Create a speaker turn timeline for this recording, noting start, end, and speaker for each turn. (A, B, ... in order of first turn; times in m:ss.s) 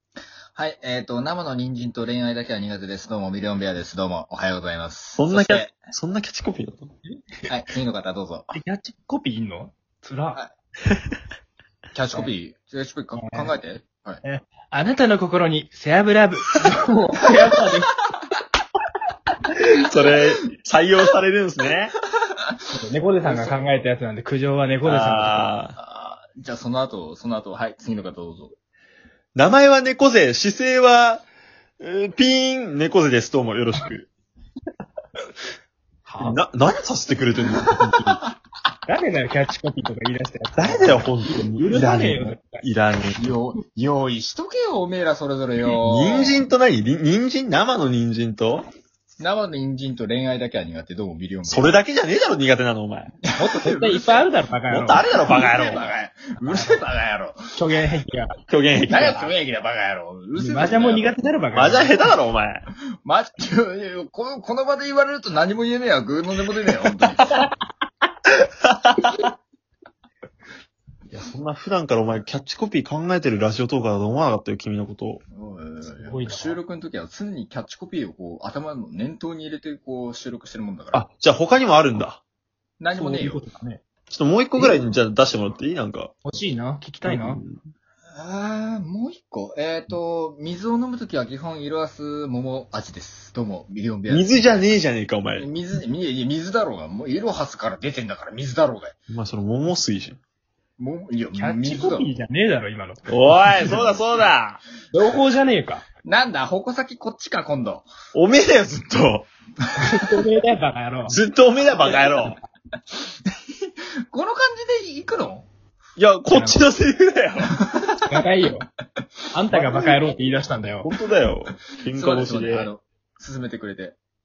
0:00.5-0:05.7 A
0:05.2-0:06.9 B
0:07.5-0:08.5 A
0:08.5-0:10.4 C
0:11.9-0:14.2 A
0:13.1-0:13.6 C
0:14.2-0:17.9 C
0:19.5-0:21.9 B
0:22.7-0:25.5 C
0:23.2-0:23.6 A
0:24.8-0:25.7 B
0:25.8-0:28.6 A
0:29.3-0:31.2 B
0:31.8-0:34.1 B
0:36.1-0:36.4 C
0:36.2-0:38.2 B
0:38.9-0:42.6 C
0:40.6-0:43.2 B
0:43.2-0:46.4 A
0:45.8-0:48.7 B
0:49.2-0:51.8 A
0:51.5-0:53.1 B
0:53.3-0:54.3 A
0:53.4-0:55.1 C
0:54.7-0:55.9 B
0:55.1-0:57.4 A
0:56.4-0:56.8 C
0:57.6-0:58.4 C
0:58.5-0:59.3 B
0:58.9-1:01.2 A
1:00.3-1:02.0 C
1:01.5-1:02.6 B
1:03.0-1:07.3 A
1:08.4-1:09.2 B
1:11.1-1:15.2 B
1:15.3-1:21.0 A
1:15.8-1:16.6 C
1:20.9-1:22.2 B
1:22.8-1:23.4 A
1:22.9-1:23.8 C
1:24.1-1:26.1 B
1:26.2-1:27.4 C
1:27.0-1:27.6 B
1:28.1-1:34.7 A
1:34.1-1:35.4 B
1:35.3-1:38.9 A
1:39.1-1:40.2 B
1:40.8-1:42.1 A
1:41.4-1:43.8 C
1:43.1-1:44.6 B
1:44.9-1:45.8 C
1:46.0-1:47.9 A
1:48.1-1:49.3 B
1:49.8-1:51.1 C
1:51.1-1:52.4 B
1:51.8-1:52.4 C
1:54.1-1:55.5 A
1:56.0-1:57.5 B
1:56.3-1:56.6 C
1:57.6-1:58.1 A
1:58.1-1:58.7 C
1:59.3-2:00.9 C
1:59.5-2:00.1 B
2:00.8-2:02.7 B
2:02.0-2:04.0 A